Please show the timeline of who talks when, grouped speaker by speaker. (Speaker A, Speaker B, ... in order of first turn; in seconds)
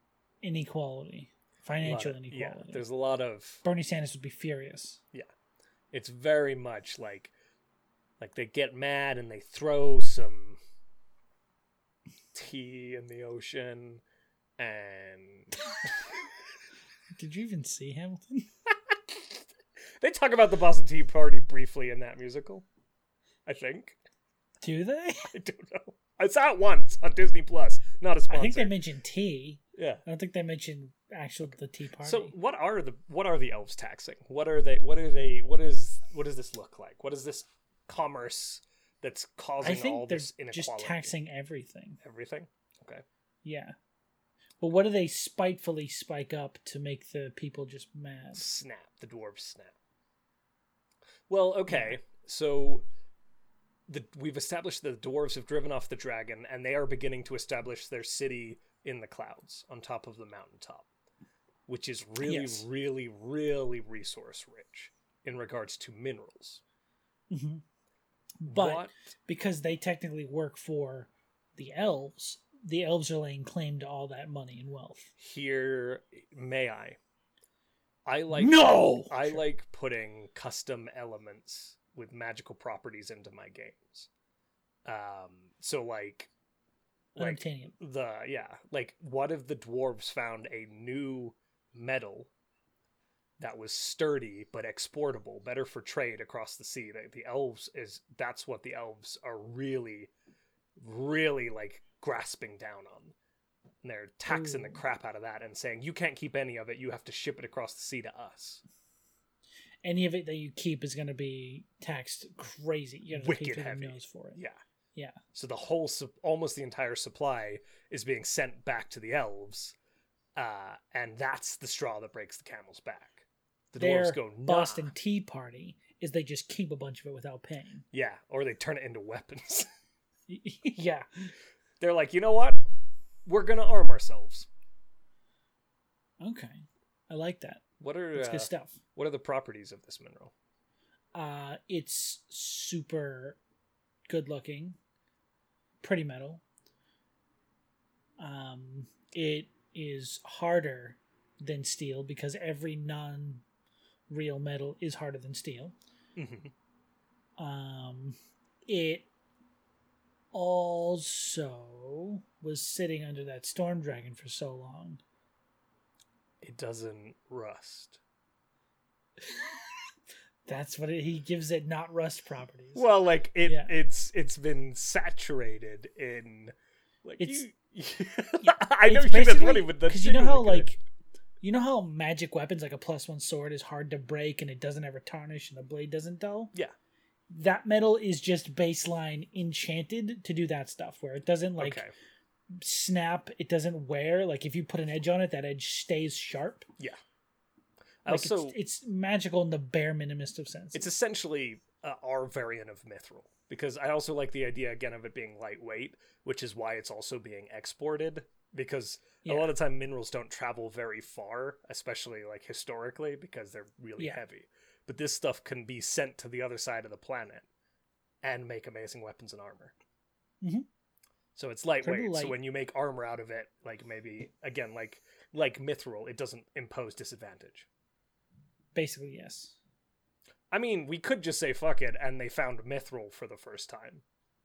Speaker A: 0.4-2.8, 3.6-5.0, 17.1-18.5, 24.6-25.3, 28.3-32.3, 39.6-42.0, 43.4-43.8, 44.6-48.4, 51.7-52.0, 62.2-62.6, 67.3-67.6, 68.4-75.1, 78.3-79.4, 87.2-87.8, 104.3-104.8, 109.8-114.4, 123.8-127.8, 130.3-131.3, 136.2-137.6, 138.2-138.8, 141.1-143.4, 144.1-144.8, 145.8-146.4, 148.2-153.4, 154.1-155.8, 157.4-158.2, 158.7-159.1, 160.3-165.0, 169.2-169.5, 170.5-172.8, 173.4-173.8, 177.2-177.4, 178.4-180.8, 181.4-186.5, 187.3-191.8, 192.5-196.7, 198.1-200.9, 209.2-209.5, 221.8-222.4, 228.8-229.6
Speaker B: 1.8-3.6, 5.9-7.3, 8.2-10.6, 12.3-14.0, 14.6-15.9, 18.7-19.4, 20.0-22.6, 23.5-24.0, 25.3-28.8, 29.8-30.0, 32.0-41.1, 42.0-43.0, 48.3-49.8, 51.3-52.9, 53.9-60.9, 61.7-66.6, 68.5-69.0, 75.2-77.0, 78.1-84.1, 84.9-86.3, 87.2-92.3, 93.4-100.1, 100.8-103.2, 103.8-108.6, 113.1-114.6, 115.3-119.8, 120.4-124.9, 127.9-129.7, 131.8-132.6, 133.2-134.5, 137.8-140.3, 156.2-156.5, 166.4-168.0, 172.8-180.8, 191.6-191.9, 198.0-198.6, 200.7-217.5, 218.2-219.7, 221.3-227.7, 230.5-234.0